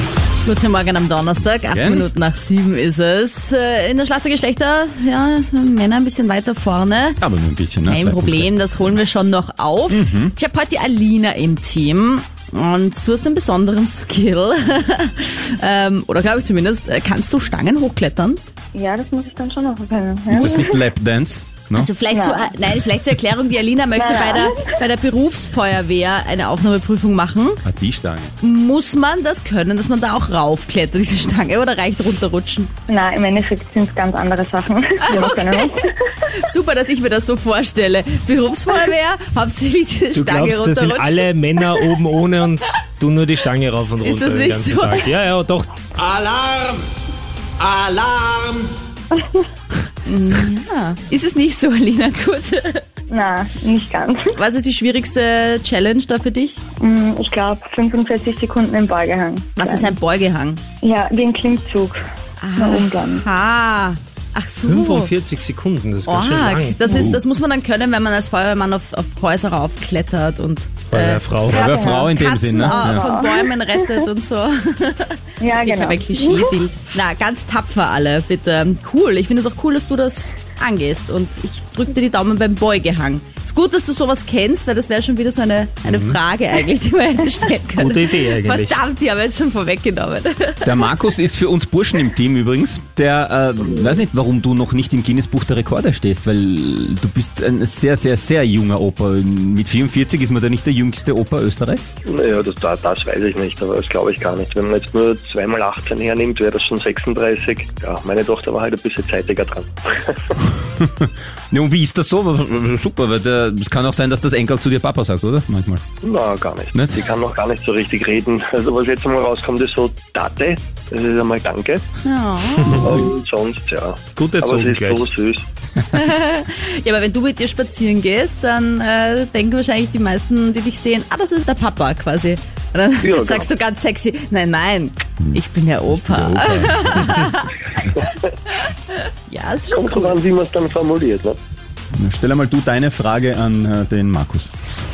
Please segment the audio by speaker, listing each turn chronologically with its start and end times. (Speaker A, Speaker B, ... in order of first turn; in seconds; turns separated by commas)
Speaker A: 0.4-7.2, Speaker B: 1.7-2.0, Speaker B: 7.2-8.5, Speaker A: 7.8-18.4, Speaker B: 9.9-10.3, Speaker C: 18.7-20.8, Speaker B: 20.3-21.9, Speaker A: 21.7-27.6, Speaker C: 22.1-22.5, Speaker C: 23.9-24.6, Speaker B: 27.6-28.3, Speaker A: 28.4-32.7, Speaker C: 32.9-35.9, Speaker A: 35.0-41.9, Speaker D: 40.1-45.7, Speaker A: 44.0-45.1, Speaker B: 46.0-46.8, Speaker B: 47.6-48.6, Speaker A: 50.0-52.8, Speaker C: 53.1-54.3, Speaker A: 54.3-56.6, Speaker C: 56.8-59.9, Speaker A: 59.5-60.6, Speaker C: 60.8-62.0, Speaker A: 62.4-65.1, Speaker C: 62.6-63.2, Speaker D: 64.7-66.8, Speaker A: 66.0-90.8, Speaker B: 66.9-67.2, Speaker D: 70.9-71.7, Speaker B: 71.5-73.0, Speaker C: 71.5-73.9, Speaker C: 75.4-76.5, Speaker D: 85.8-86.2, Speaker D: 87.8-88.8, Speaker B: 90.6-101.8, Speaker E: 102.0-110.3, Speaker B: 110.6-115.8, Speaker E: 116.0-121.8, Speaker B: 116.7-117.0, Speaker A: 122.0-122.9, Speaker D: 122.6-123.0, Speaker E: 122.8-125.5, Speaker D: 124.1-125.0, Speaker A: 125.9-137.6, Speaker E: 133.0-133.5, Speaker B: 135.9-137.2, Speaker A: 138.5-140.2, Speaker E: 139.8-141.4, Speaker B: 142.0-144.5